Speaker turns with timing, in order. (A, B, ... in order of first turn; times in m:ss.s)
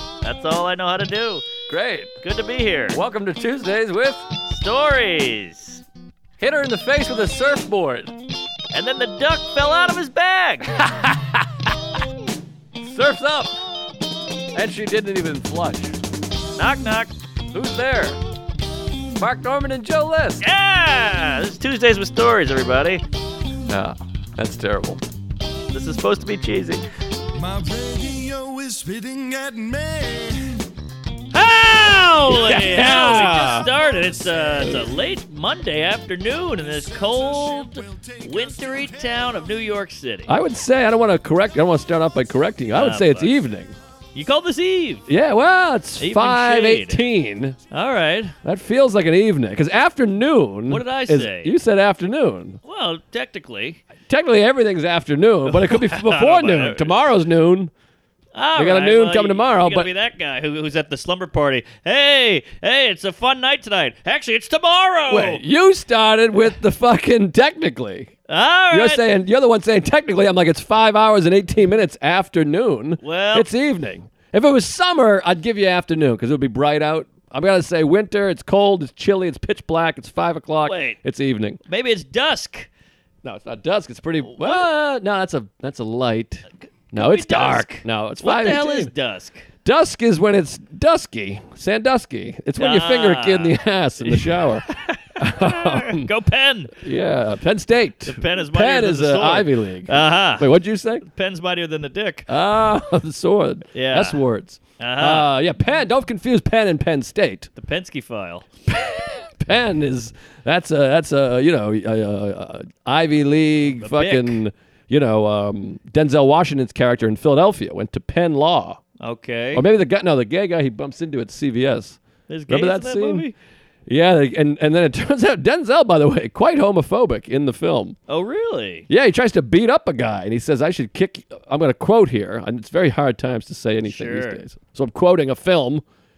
0:00.2-0:01.5 A
0:01.7-0:02.1 B
0:02.2-0:03.0 A
0:02.9-0:04.2 B
0:04.5-0:05.8 A
0:06.4-0:08.1 B
0:08.7-0:10.7 A
0:10.7-0:11.4 B
0:12.8-0:13.5 B
0:14.5-0:16.0 B
0:16.5-0:17.1 A
0:17.5-0:18.2 B
0:19.2-0:20.4 B
0:20.4-0:23.0 A
0:23.7-0:25.0 B
0:25.7-0:26.8 A
0:27.3-0:30.6 C
0:31.3-0:40.3 A
0:32.2-0:33.7 B
0:32.8-0:35.0 C
0:36.5-0:39.6 C
0:40.3-0:43.7 B
0:42.7-0:43.4 A
0:44.1-0:45.1 A
0:45.1-0:47.6 B
0:46.0-0:47.0 A
0:47.7-0:48.3 A
0:48.4-0:52.6 B
0:50.7-0:51.5 A
0:52.6-0:53.8 A
0:54.0-0:57.7 B
0:55.5-0:57.0 A
0:58.3-1:05.4 A
0:58.6-0:59.9 B
1:05.1-1:08.1 B
1:08.3-1:09.0 A
1:08.7-1:21.6 B
1:13.0-1:13.5 A
1:20.6-1:21.0 A
1:21.6-1:22.7 A
1:23.2-1:28.9 B
1:24.2-1:24.7 A
1:26.9-1:29.5 A
1:29.6-1:36.1 B
1:32.6-1:36.8 A
1:36.8-1:41.0 B
1:38.0-1:40.5 A
1:41.0-1:42.3 A
1:42.3-1:47.5 B
1:43.7-1:44.2 A
1:44.8-1:45.3 A
1:47.6-1:48.5 A
1:48.7-1:58.8 B
1:53.8-1:54.4 A
1:59.0-1:59.6 A
1:59.5-2:03.3 B
2:02.3-2:03.3 A
2:03.9-2:08.0 B
2:08.1-2:08.8 A
2:08.9-2:15.8 B
2:13.8-2:14.4 A